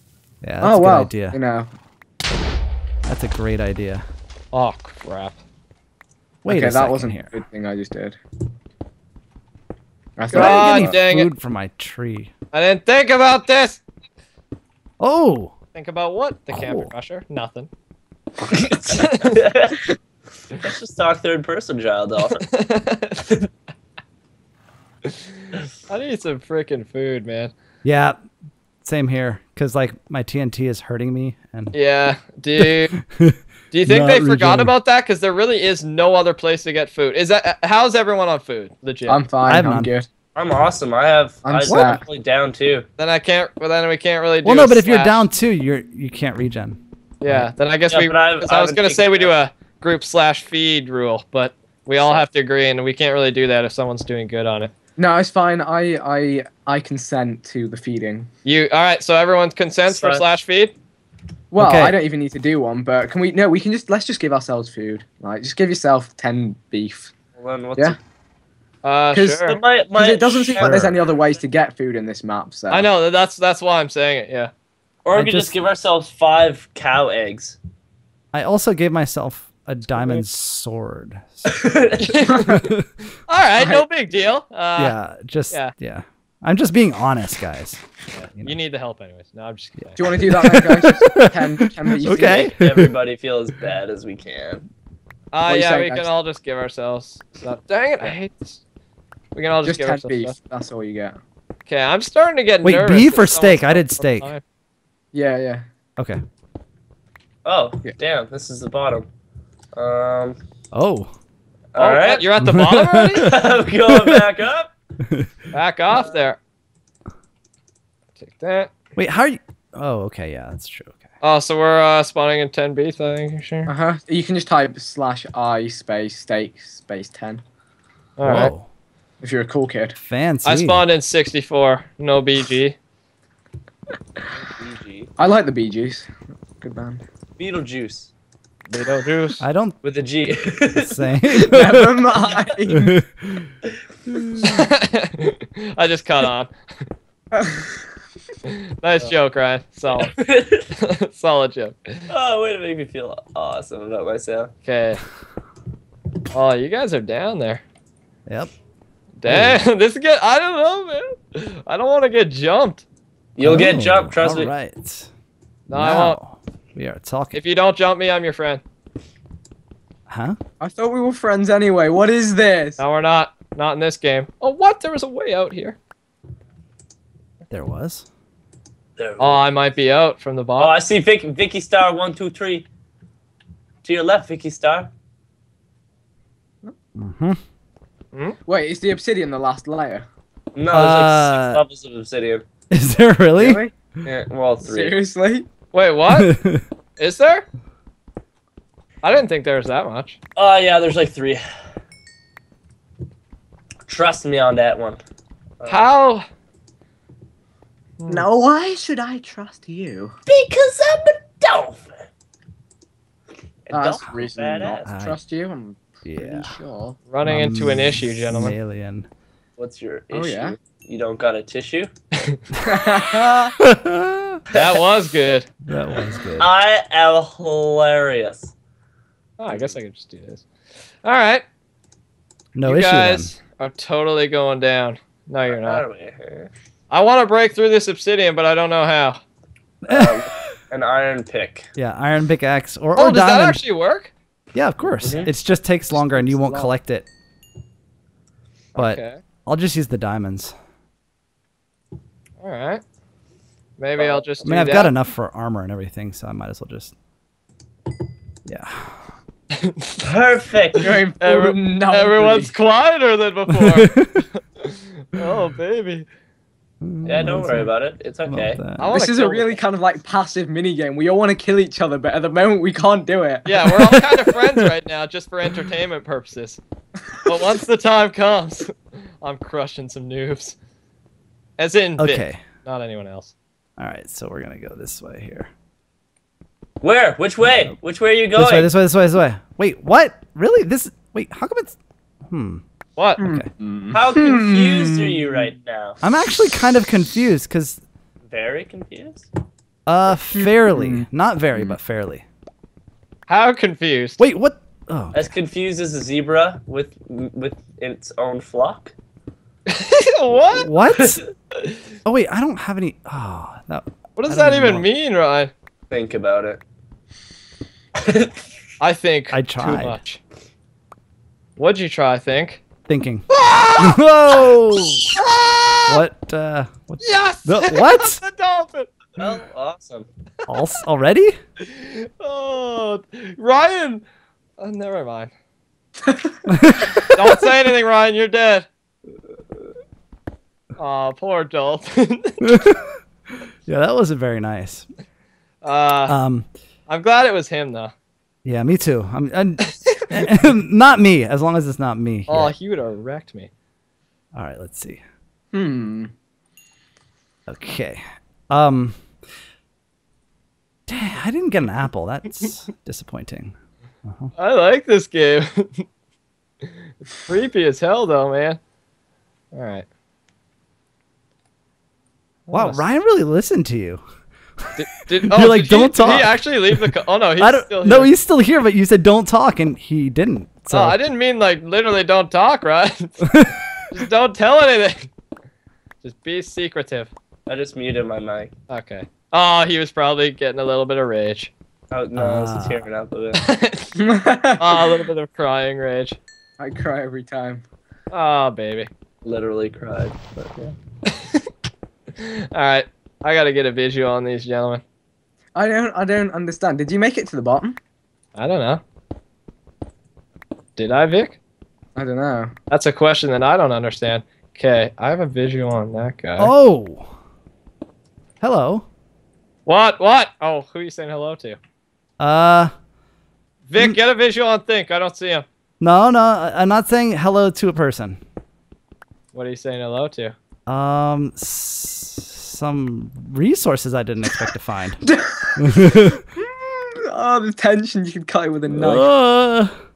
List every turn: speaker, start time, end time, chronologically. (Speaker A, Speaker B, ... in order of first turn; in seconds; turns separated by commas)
Speaker A: 0.4-1.4, Speaker B: 0.6-1.7, Speaker A: 3.1-4.0, Speaker C: 4.5-5.4, Speaker A: 6.5-7.3, Speaker B: 6.5-8.2, Speaker B: 10.2-10.9, Speaker A: 10.3-12.3, Speaker C: 10.3-11.3, Speaker C: 12.5-13.8, Speaker A: 15.0-15.5, Speaker C: 15.7-17.7, Speaker A: 16.5-16.9, Speaker D: 18.5-19.9, Speaker C: 18.9-19.4, Speaker D: 20.5-22.5, Speaker C: 22.4-23.4, Speaker C: 25.1-27.5, Speaker A: 27.8-28.2, Speaker A: 28.8-31.7, Speaker C: 31.7-32.9, Speaker A: 32.6-34.7, Speaker C: 33.7-39.2, Speaker B: 39.1-40.1, Speaker A: 39.5-39.9, Speaker D: 40.4-42.9, Speaker B: 41.5-42.0, Speaker A: 41.7-42.0, Speaker C: 43.0-45.3, Speaker A: 44.4-47.5, Speaker C: 47.2-54.7, Speaker D: 47.9-49.3, Speaker B: 55.0-58.3, Speaker C: 58.5-60.8, Speaker D: 59.9-60.2, Speaker B: 61.5-67.1, Speaker A: 61.6-62.0, Speaker D: 67.4-68.0, Speaker C: 68.8-69.6, Speaker B: 69.1-72.9, Speaker D: 69.5-71.0, Speaker A: 70.6-70.9, Speaker C: 72.7-74.5, Speaker D: 75.0-77.6, Speaker A: 75.1-75.5, Speaker A: 78.3-81.5, Speaker D: 81.5-82.4, Speaker C: 82.1-82.7, Speaker B: 82.3-82.5, Speaker A: 82.5-82.9, Speaker C: 83.3-85.0, Speaker B: 83.6-83.8, Speaker A: 84.8-87.8, Speaker C: 88.1-90.2, Speaker B: 90.0-92.5, Speaker A: 90.3-93.0, Speaker D: 92.2-94.7, Speaker C: 95.3-98.6, Speaker B: 95.5-96.1, Speaker C: 99.3-100.3, Speaker B: 99.7-101.2, Speaker C: 101.7-104.4, Speaker A: 102.6-104.3, Speaker B: 105.1-105.7, Speaker D: 107.5-109.1, Speaker D: 109.8-110.4, Speaker A: 110.7-111.1, Speaker D: 111.7-112.2, Speaker C: 111.8-113.3, Speaker A: 112.4-114.2, Speaker D: 113.2-114.7, Speaker A: 115.0-115.3, Speaker C: 115.5-116.4, Speaker D: 115.9-116.2, Speaker C: 118.2-118.7, Speaker A: 119.0-121.0, Speaker C: 121.2-123.7, Speaker B: 123.7-127.4, Speaker C: 128.2-128.5, Speaker A: 128.2-128.7, Speaker B: 129.2-130.0, Speaker A: 130.0-130.8, Speaker C: 130.4-132.8, Speaker D: 134.4-135.1, Speaker B: 135.2-137.0, Speaker D: 137.4-138.1, Speaker C: 138.7-139.4, Speaker A: 139.4-139.8, Speaker D: 139.8-141.4, Speaker A: 140.8-142.1, Speaker B: 141.4-143.0, Speaker D: 142.2-142.6, Speaker A: 142.7-143.5, Speaker A: 144.1-144.7, Speaker C: 144.4-146.5, Speaker B: 147.4-147.7, Speaker C: 148.5-150.2, Speaker D: 150.0-150.7, Speaker C: 150.8-152.1, Speaker D: 152.1-154.5, Speaker C: 154.7-155.0, Speaker C: 156.3-157.6, Speaker A: 158.3-158.5, Speaker C: 159.2-162.8, Speaker A: 159.3-159.6, Speaker D: 163.4-164.5, Speaker A: 163.4-165.1, Speaker C: 165.7-166.2, Speaker A: 165.7-167.4, Speaker C: 167.3-168.6, Speaker A: 170.1-170.4, Speaker B: 170.6-172.8, Speaker C: 172.8-175.8, Speaker A: 177.5-178.1, Speaker D: 179.0-179.4, Speaker C: 179.2-180.8, Speaker D: 180.6-182.7, Speaker D: 183.8-184.9, Speaker A: 187.0-187.4, Speaker B: 188.5-190.1, Speaker D: 190.5-192.4, Speaker A: 190.7-191.6, Speaker A: 192.7-193.6, Speaker B: 193.4-193.7, Speaker D: 194.1-195.0, Speaker B: 194.6-195.5, Speaker C: 195.7-196.3, Speaker A: 196.1-196.7, Speaker C: 197.0-197.5, Speaker C: 199.0-200.2, Speaker D: 200.4-201.4, Speaker D: 203.9-205.0, Speaker D: 205.6-205.9, Speaker C: 205.7-206.3, Speaker C: 208.0-208.3, Speaker B: 208.1-210.1, Speaker D: 210.3-212.1, Speaker D: 213.7-214.9, Speaker B: 213.7-217.0, Speaker A: 214.8-215.2, Speaker A: 216.1-216.5, Speaker C: 217.1-218.6, Speaker A: 217.2-219.1, Speaker D: 219.6-221.9, Speaker B: 220.1-220.6, Speaker B: 222.6-223.6, Speaker A: 222.7-223.0, Speaker A: 223.6-224.4, Speaker C: 224.5-225.5, Speaker D: 224.5-224.8, Speaker A: 225.7-226.5, Speaker D: 226.4-228.5, Speaker C: 229.4-230.4, Speaker C: 231.0-231.4, Speaker A: 232.5-233.3, Speaker C: 232.6-235.8, Speaker D: 235.5-236.5, Speaker C: 236.9-239.2, Speaker A: 239.8-240.5, Speaker D: 239.9-241.7, Speaker A: 241.8-243.6, Speaker C: 242.9-244.1, Speaker A: 244.5-247.1, Speaker D: 245.0-245.3, Speaker B: 245.9-246.7, Speaker A: 248.8-250.5, Speaker C: 248.8-249.2, Speaker C: 252.4-252.8, Speaker C: 253.8-254.9, Speaker D: 254.0-254.2, Speaker A: 254.4-256.9, Speaker A: 258.5-259.1, Speaker C: 259.6-260.0, Speaker D: 260.0-261.0, Speaker B: 260.8-262.5, Speaker C: 261.2-266.1, Speaker A: 263.5-264.2, Speaker A: 266.8-267.7, Speaker D: 267.0-268.6, Speaker A: 268.3-268.9, Speaker C: 268.8-269.6, Speaker B: 268.8-273.5, Speaker C: 273.5-276.6, Speaker A: 273.6-274.7, Speaker C: 277.2-280.6, Speaker C: 281.6-283.3, Speaker A: 282.0-282.4, Speaker A: 283.8-285.5, Speaker D: 286.8-288.7, Speaker A: 288.4-292.6, Speaker C: 293.0-293.2, Speaker A: 293.2-293.5, Speaker B: 293.2-295.4, Speaker D: 293.9-296.0, Speaker A: 296.0-297.8, Speaker D: 298.3-299.3, Speaker A: 299.9-302.2, Speaker B: 300.3-301.8, Speaker C: 303.3-304.2, Speaker A: 304.2-305.3, Speaker D: 305.1-308.9, Speaker C: 309.7-310.7, Speaker A: 310.6-311.2, Speaker D: 310.9-311.3, Speaker A: 312.1-314.9, Speaker C: 314.2-315.5, Speaker D: 315.9-316.6, Speaker D: 318.0-318.4, Speaker C: 318.8-320.2, Speaker A: 319.3-320.0, Speaker C: 321.6-322.6, Speaker A: 322.9-325.1, Speaker C: 323.3-324.0, Speaker C: 325.1-326.0, Speaker A: 325.9-328.2, Speaker C: 327.0-328.9, Speaker D: 329.2-330.1, Speaker A: 330.5-331.4, Speaker C: 331.6-334.0, Speaker C: 334.6-335.3, Speaker B: 336.1-337.1, Speaker A: 336.5-337.0, Speaker C: 337.0-338.7, Speaker C: 340.8-342.5, Speaker A: 342.4-343.0, Speaker A: 343.7-344.9, Speaker C: 345.6-346.2, Speaker A: 346.1-346.5, Speaker C: 346.9-347.9, Speaker A: 348.4-352.5, Speaker C: 352.3-353.5, Speaker A: 354.3-355.0, Speaker B: 355.5-356.1, Speaker A: 357.5-359.1, Speaker A: 360.9-363.5, Speaker A: 364.1-364.3, Speaker C: 364.4-365.9, Speaker C: 367.2-368.6, Speaker C: 369.5-369.9, Speaker C: 372.5-372.9, Speaker A: 372.5-374.0, Speaker C: 374.8-378.1, Speaker A: 375.2-381.0, Speaker C: 380.7-383.3, Speaker A: 383.2-383.5, Speaker C: 383.9-385.1, Speaker C: 386.0-387.1, Speaker D: 387.5-388.5, Speaker C: 388.7-391.5, Speaker D: 391.9-393.4, Speaker A: 392.1-392.9, Speaker C: 393.4-393.9, Speaker B: 394.0-394.9, Speaker C: 394.6-396.2, Speaker B: 396.6-397.6, Speaker C: 398.1-398.9, Speaker D: 399.2-400.8, Speaker C: 401.1-401.5, Speaker C: 402.2-404.8, Speaker B: 405.6-407.8, Speaker C: 408.4-408.8, Speaker C: 410.8-411.4, Speaker B: 412.0-412.5, Speaker C: 412.7-416.5, Speaker A: 416.4-417.1, Speaker A: 418.4-418.9, Speaker C: 419.7-421.6, Speaker A: 422.2-422.7, Speaker C: 423.7-425.5, Speaker A: 425.8-428.2, Speaker C: 429.3-430.4, Speaker A: 430.7-435.0, Speaker B: 435.0-439.1, Speaker A: 435.6-436.2, Speaker A: 438.7-439.7